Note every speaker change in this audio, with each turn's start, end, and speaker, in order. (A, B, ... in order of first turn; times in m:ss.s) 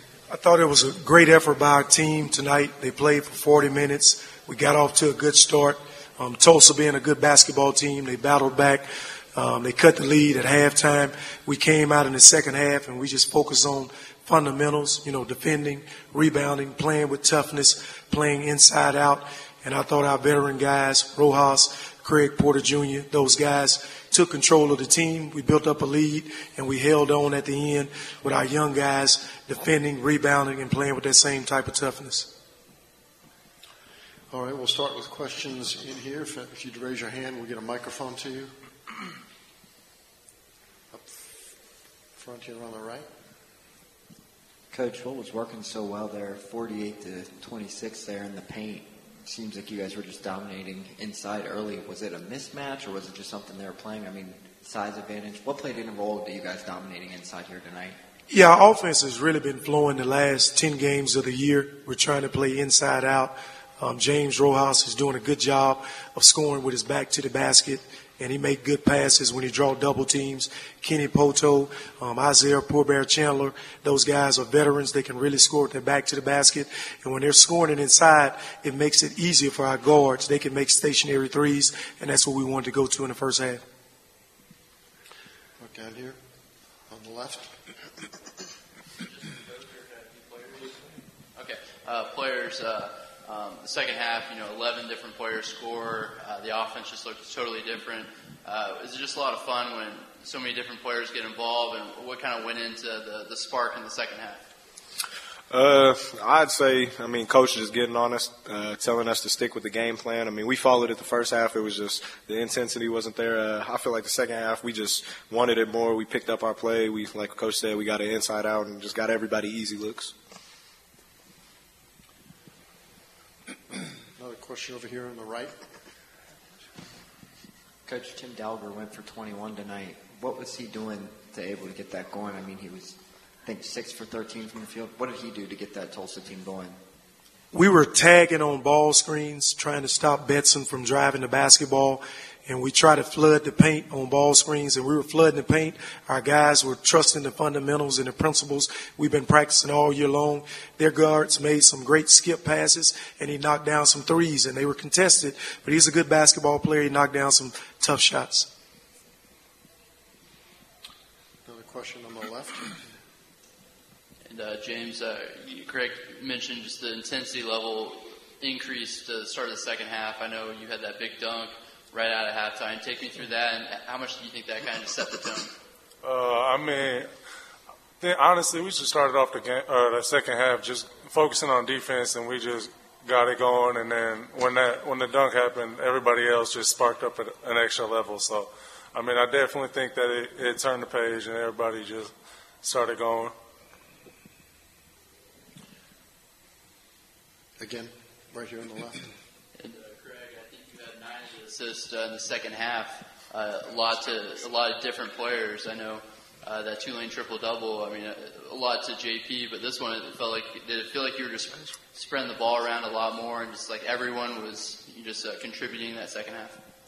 0:00.3-0:32.3 A
0:34.3-0:38.5 B
0:40.9-0:41.5 B
0:42.2-0:43.1 B
0:44.7-0:58.0 C
0:58.3-1:23.6 A
1:25.6-1:26.2 B
1:26.9-1:27.6 B
1:29.0-1:44.4 D
1:45.5-2:00.1 E
2:03.8-2:05.5 B
2:07.9-2:16.8 C
2:17.5-2:38.5 A
2:41.4-2:42.9 B
2:44.3-2:55.5 D
2:56.0-2:57.1 F
2:58.0-3:12.1 F
3:12.6-3:13.3 F
3:17.6-3:19.1 B
3:19.6-3:36.6 D